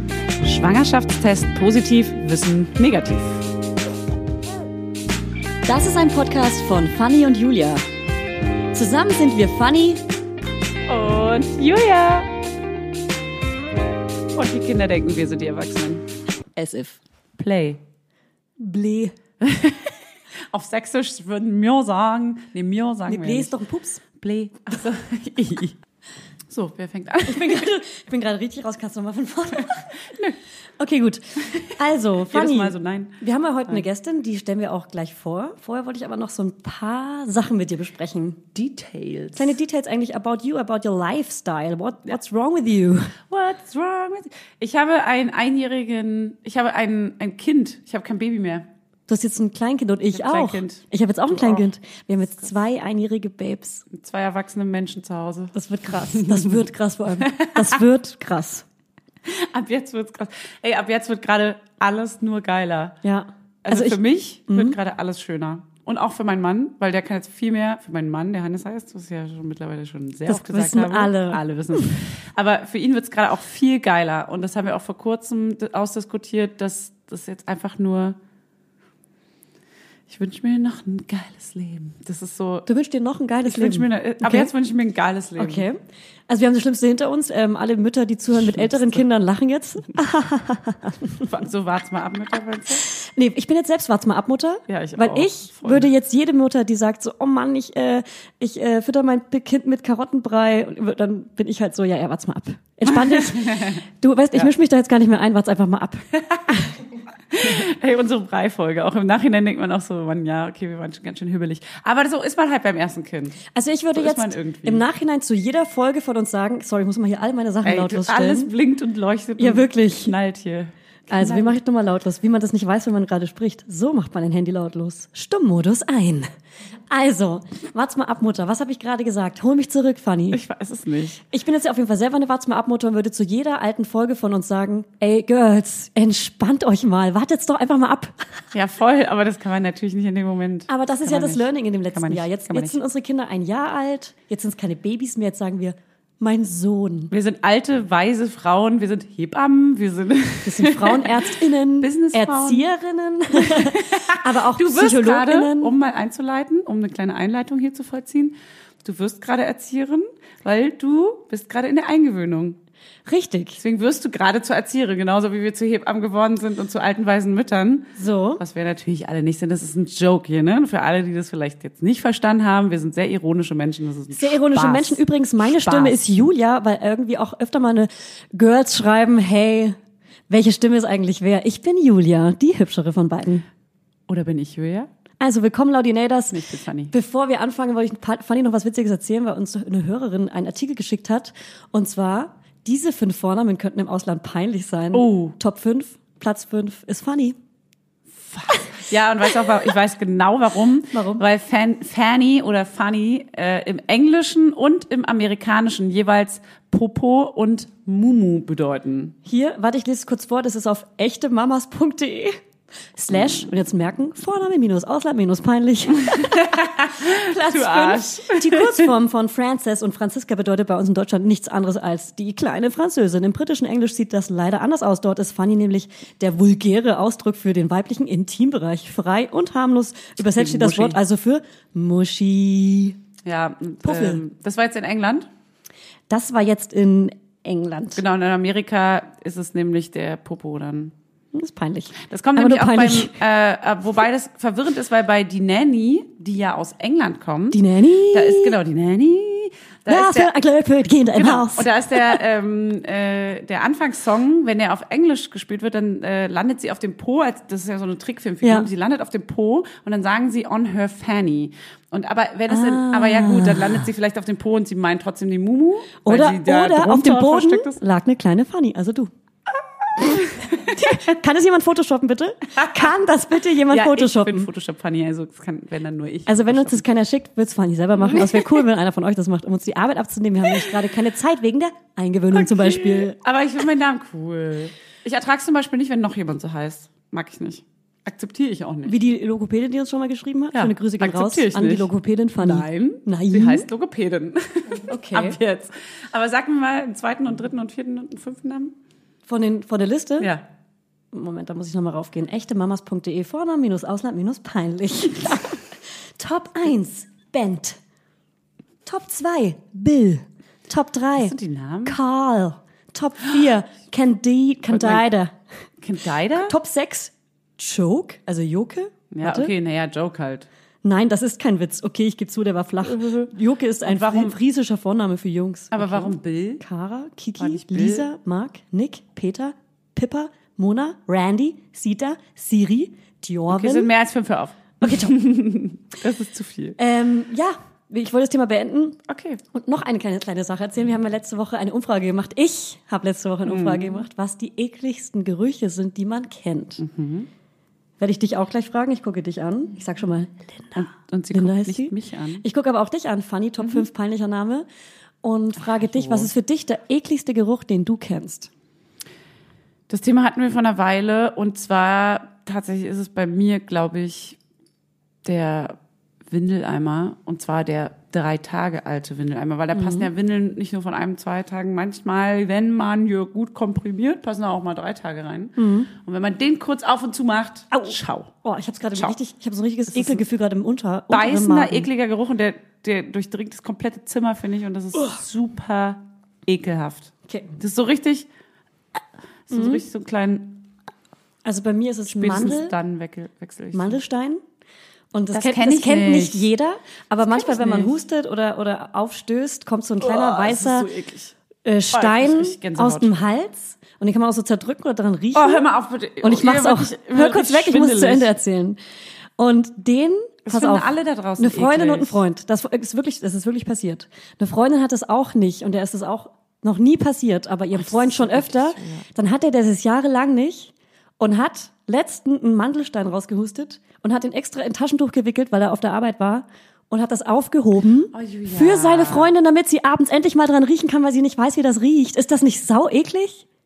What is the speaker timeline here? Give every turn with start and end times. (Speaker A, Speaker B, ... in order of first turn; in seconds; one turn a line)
Speaker A: 0.4-3.5
Speaker B: 5.7-7.8
Speaker B: 8.7-10.0
Speaker A: 10.9-12.3
Speaker A: 14.3-16.1
Speaker B: 16.6-17.0
Speaker A: 17.4-17.8
Speaker B: 18.6-19.1
Speaker A: 19.4-23.5
Speaker B: 23.1-24.0
Speaker A: 24.2-25.8
Speaker A: 26.5-27.7
Speaker B: 27.2-29.9
Speaker A: 29.6-30.4
Speaker B: 30.8-38.4
Speaker A: 32.3-33.8
Speaker A: 38.5-39.6
Speaker B: 39.4-43.1
Speaker A: 43.3-48.7
Speaker B: 49.1-53.9
Speaker A: 50.1-51.7
Speaker A: 53.9-56.6
Speaker B: 55.5-58.6
Speaker A: 57.2-57.8
Speaker A: 59.3-63.0
Speaker B: 63.0-64.8
Speaker A: 63.6-78.2
Speaker B: 70.3-71.9
Speaker A: 80.1-82.7
Speaker B: 82.7-84.5
Speaker A: 83.5-85.7
Speaker B: 85.4-91.3
Speaker A: 88.4-89.0
Speaker A: 91.2-92.8
Speaker B: 93.0-106.7
Speaker A: 94.7-95.9
Speaker A: 102.9-103.8
Speaker A: 106.2-106.5
Speaker A: 107.3-113.4
Speaker B: 113.5-118.5
Speaker A: 114.0-114.8
Speaker A: 117.6-121.6
Speaker B: 119.4-120.2
Speaker B: 121.1-126.3
Speaker B: 126.9-130.4
Speaker A: 130.3-131.2
Speaker B: 131.3-138.2
Speaker A: 138.5-142.8
Speaker B: 140.7-147.1
Speaker A: 147.1-152.6
Speaker B: 150.4-155.7
Speaker A: 153.3-162.6
Speaker B: 163.1-163.6
Speaker A: 163.6-176.0
Speaker B: 168.0-168.4
Speaker B: 174.1-179.8
Speaker B: 180.3-183.5
Speaker A: 184.1-184.9
Speaker B: 185.2-197.4
Speaker A: 186.3-186.9
Speaker A: 194.9-195.4
Speaker A: 198.3-209.2
Speaker B: 200.9-201.2
Speaker B: 209.2-212.4
Speaker B: 213.0-233.0
Speaker A: 213.1-213.4
Speaker A: 216.0-218.9
Speaker A: 230.2-231.0
Speaker A: 233.2-235.3
Speaker B: 233.8-234.2
Speaker B: 236.1-238.0
Speaker A: 237.9-240.9
Speaker B: 241.3-243.1
Speaker A: 242.0-250.3
Speaker B: 247.5-248.6
Speaker B: 249.9-252.2
Speaker A: 251.1-267.8
Speaker B: 258.4-258.7
Speaker B: 262.5-263.9
Speaker B: 266.0-269.1
Speaker A: 270.0-271.0
Speaker B: 270.8-274.5
Speaker A: 272.6-272.9
Speaker A: 273.7-276.9
Speaker B: 276.3-283.2
Speaker A: 278.0-278.6
Speaker A: 280.5-280.7
Speaker A: 282.3-289.0
Speaker B: 288.9-293.7
Speaker A: 290.5-298.8
Speaker B: 294.9-295.4
Speaker B: 299.3-300.3
Speaker B: 301.1-307.8
Speaker B: 308.9-315.4
Speaker A: 311.1-312.0
Speaker A: 314.7-315.1
Speaker A: 315.8-316.6
Speaker B: 316.4-319.5
Speaker A: 319.1-320.5
Speaker B: 320.8-333.9
Speaker A: 322.8-323.3
Speaker A: 323.8-324.4
Speaker A: 325.7-326.6
Speaker A: 327.4-328.1
Speaker A: 333.5-336.8
Speaker B: 334.8-335.1
Speaker B: 336.8-339.0
Speaker A: 339.1-339.4
Speaker B: 339.5-346.8
Speaker A: 343.4-344.1
Speaker A: 346.8-347.3
Speaker B: 348.0-354.7
Speaker A: 350.8-352.4
Speaker A: 353.6-353.9
Speaker B: 355.2-358.5
Speaker A: 355.6-356.3
Speaker A: 359.9-364.4
Speaker A: 365.2-365.8
Speaker A: 366.3-378.4
Speaker B: 369.7-370.1
Speaker B: 375.6-375.9
Speaker B: 377.7-381.9
Speaker A: 378.9-379.2
Speaker A: 379.9-380.2
Speaker A: 381.1-388.3
Speaker B: 387.3-387.6
Speaker A: 389.0-390.7
Speaker B: 389.5-389.8
Speaker B: 391.4-392.8
Speaker A: 392.1-394.0
Speaker B: 393.7-394.4
Speaker B: 395.1-400.9
Speaker A: 395.3-396.5
Speaker A: 397.2-397.9
Speaker A: 400.0-401.4
Speaker B: 401.6-405.7
Speaker A: 401.9-403.2
Speaker A: 405.3-408.3
Speaker B: 406.2-408.8
Speaker B: 409.4-433.4
Speaker A: 410.5-412.2
Speaker A: 417.7-419.1
Speaker A: 428.1-429.3